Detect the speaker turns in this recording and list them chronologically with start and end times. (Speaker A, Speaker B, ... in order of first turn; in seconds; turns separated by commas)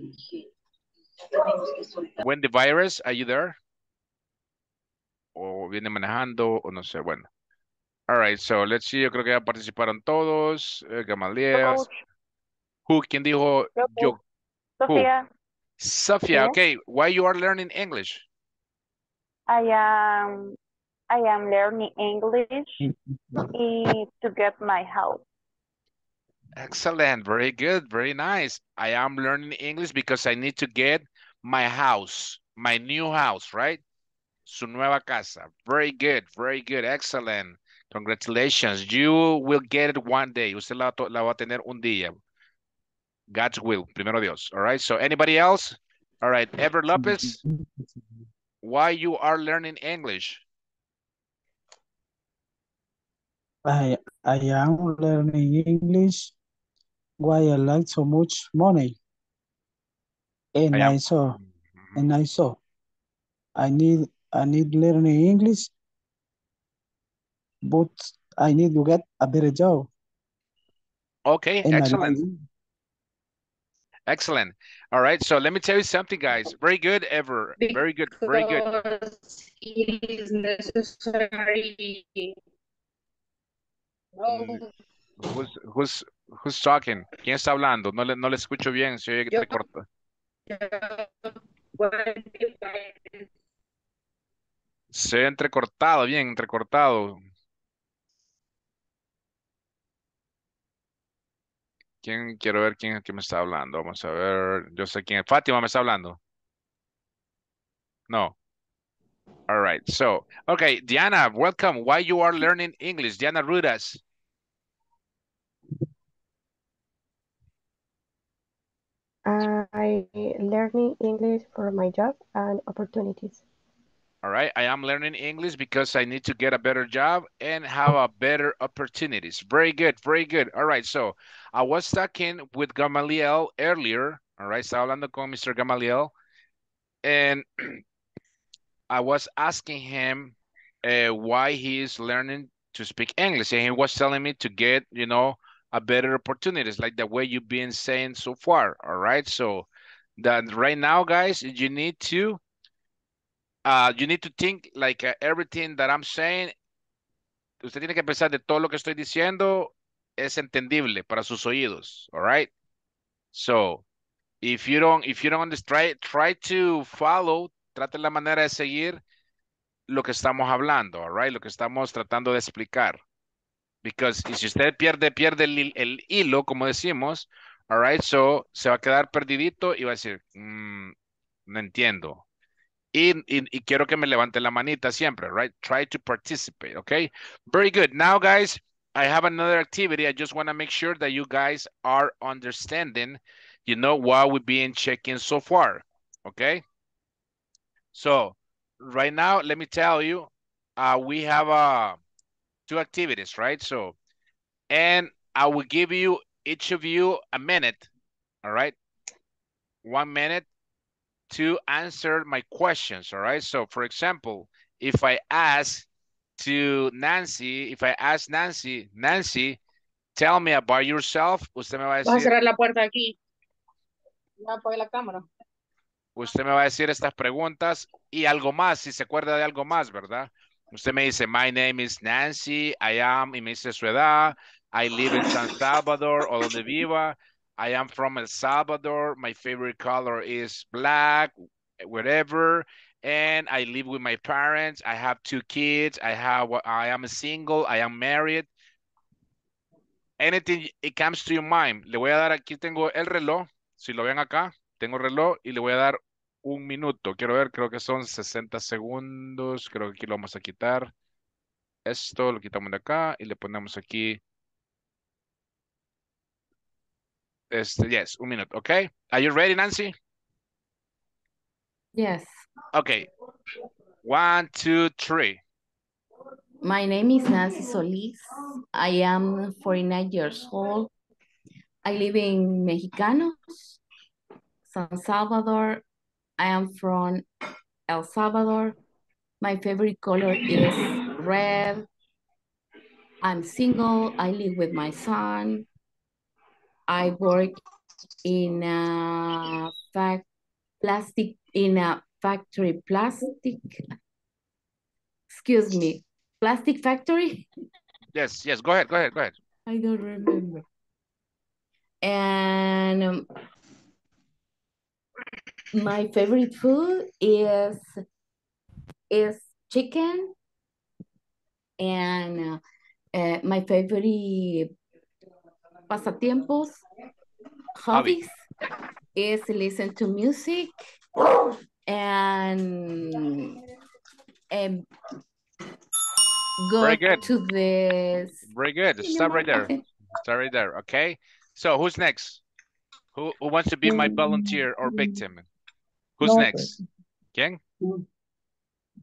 Speaker A: 2.2-3.6, Speaker A: 5.4-7.3, Speaker A: 8.1-11.8, Speaker B: 11.5-12.0, Speaker A: 12.9-14.2, Speaker B: 13.8-14.1, Speaker B: 14.8-15.3, Speaker A: 15.8-18.2, Speaker B: 16.3-16.6, Speaker B: 19.5-20.6, Speaker B: 21.1-22.8, Speaker B: 23.5-25.2, Speaker A: 26.6-33.8, Speaker A: 34.5-42.2, Speaker A: 43.3-47.4, Speaker A: 48.6-50.4, Speaker C: 53.6-56.3, Speaker C: 57.2-59.0, Speaker C: 60.5-61.4, Speaker A: 60.7-62.1, Speaker C: 61.9-62.6, Speaker C: 63.6-65.7, Speaker C: 67.6-69.9, Speaker A: 71.2-72.2, Speaker C: 71.6-72.4, Speaker A: 74.1-78.6, Speaker D: 77.6-82.3, Speaker D: 84.2-84.7, Speaker A: 84.3-84.6, Speaker A: 85.2-89.8, Speaker D: 89.3-89.6, Speaker D: 90.5-93.2, Speaker A: 94.9-97.2, Speaker A: 102.0-106.2, Speaker A: 108.1-108.3, Speaker A: 109.5-114.0, Speaker E: 119.2-123.4, Speaker A: 124.2-136.1, Speaker A: 137.0-137.8, Speaker A: 138.9-149.7, Speaker A: 150.2-152.4, Speaker A: 153.6-156.5, Speaker A: 157.6-162.5, Speaker A: 163.3-163.8, Speaker A: 164.4-169.0, Speaker A: 169.9-173.0, Speaker A: 173.8-180.9, Speaker A: 181.5-182.2, Speaker A: 182.9-196.6, Speaker A: 197.9-202.0, Speaker A: 202.7-203.9, Speaker A: 204.7-207.9, Speaker A: 208.4-208.7, Speaker A: 209.8-210.4, Speaker A: 211.3-215.9, Speaker A: 216.4-219.6, Speaker A: 220.2-222.3, Speaker D: 222.0-223.2, Speaker D: 224.4-225.3, Speaker A: 226.2-248.5, Speaker A: 250.2-260.9, Speaker A: 261.9-264.2, Speaker A: 267.5-269.9, Speaker F: 271.9-272.3, Speaker A: 272.7-273.1, Speaker A: 274.0-275.4, Speaker F: 276.6-278.2, Speaker F: 278.7-280.9, Speaker F: 281.9-283.8, Speaker F: 284.7-285.8, Speaker F: 286.4-287.2, Speaker F: 287.9-288.8, Speaker F: 289.4-291.9, Speaker F: 293.2-295.6, Speaker F: 296.9-297.6, Speaker F: 298.2-300.2, Speaker F: 300.8-303.8, Speaker F: 305.3-307.4, Speaker A: 308.1-309.3, Speaker F: 309.7-310.6, Speaker F: 312.0-313.3, Speaker F: 315.7-317.9, Speaker F: 319.1-320.3, Speaker F: 321.8-322.6, Speaker F: 323.1-324.7, Speaker F: 325.9-326.8, Speaker F: 327.8-328.4, Speaker A: 327.9-328.2, Speaker F: 329.1-330.8, Speaker F: 331.9-333.5, Speaker F: 334.5-334.9, Speaker F: 336.6-338.4, Speaker A: 336.8-337.2, Speaker A: 338.5-342.4, Speaker F: 339.3-339.7, Speaker A: 343.1-345.4, Speaker A: 346.2-346.8